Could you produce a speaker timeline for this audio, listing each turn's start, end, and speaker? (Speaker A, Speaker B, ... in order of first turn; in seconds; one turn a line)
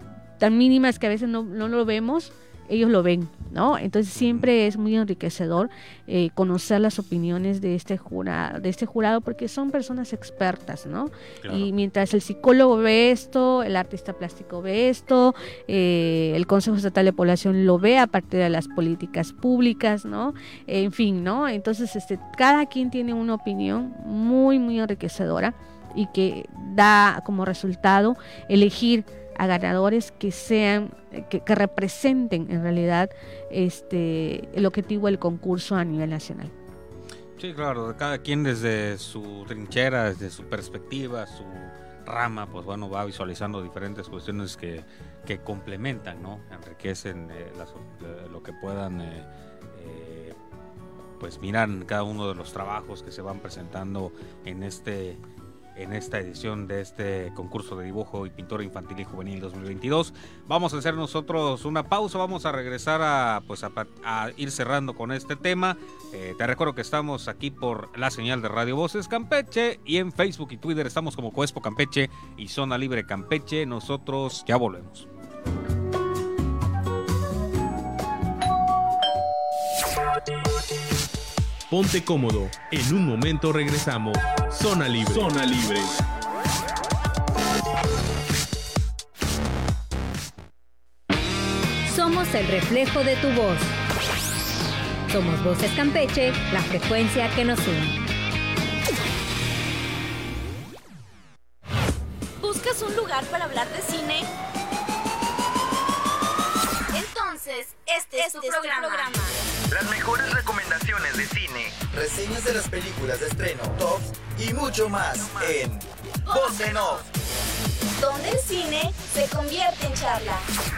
Speaker A: 0.4-36.5
Speaker B: 4.1-4.5
Speaker B: 11.4-11.7
Speaker B: 37.4-50.4
Speaker B: 51.2-55.2
Speaker B: 55.7-75.1
Speaker C: 81.7-85.9
Speaker D: 91.8-93.7
Speaker D: 95.1-98.0
Speaker E: 102.4-104.3
Speaker E: 106.9-109.3
Speaker F: 109.7-117.1
Speaker E: 116.3-116.8
Speaker E: 118.0-120.4